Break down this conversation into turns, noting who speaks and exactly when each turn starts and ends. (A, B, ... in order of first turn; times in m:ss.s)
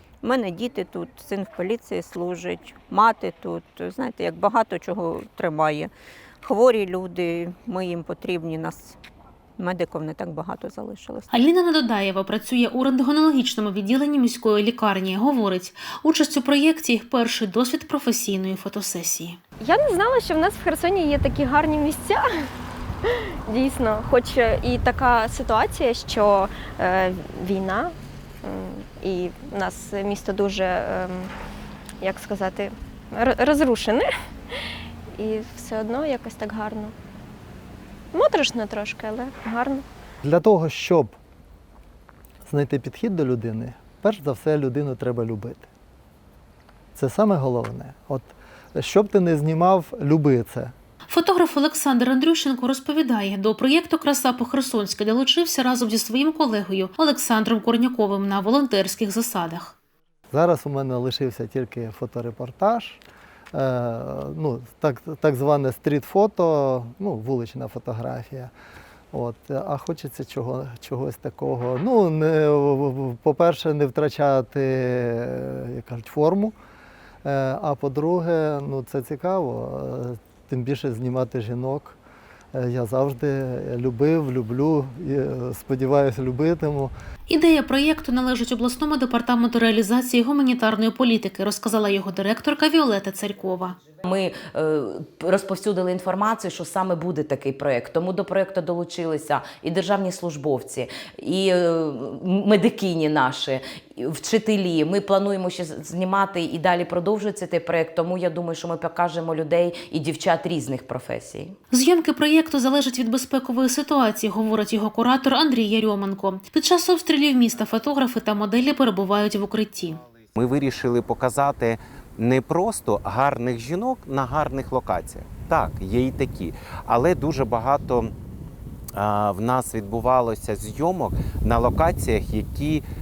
0:00.2-0:05.9 A
0:06.4-0:09.0 A
0:09.6-0:11.4 A
0:11.3-0:19.4 B
0:19.6-0:22.2 C
0:23.0-0:31.3 C
0:32.0-0:34.6 C
0:35.2-0:36.9 C
0:38.1-0:39.8 C
0:40.2-0:41.2 D
0:42.5-0:45.7 D
0:47.0-0:50.7 D
0:51.1-0:59.8 B
1:00.3-1:03.0 D
1:03.5-1:08.5 D
1:09.1-1:16.5 D
1:17.2-1:22.0 D
1:22.5-1:26.9 D
1:27.3-1:33.8 B
1:34.0-1:51.6 E
1:51.7-2:00.0 B
1:59.9-2:08.1 F
2:09.0-2:12.9 F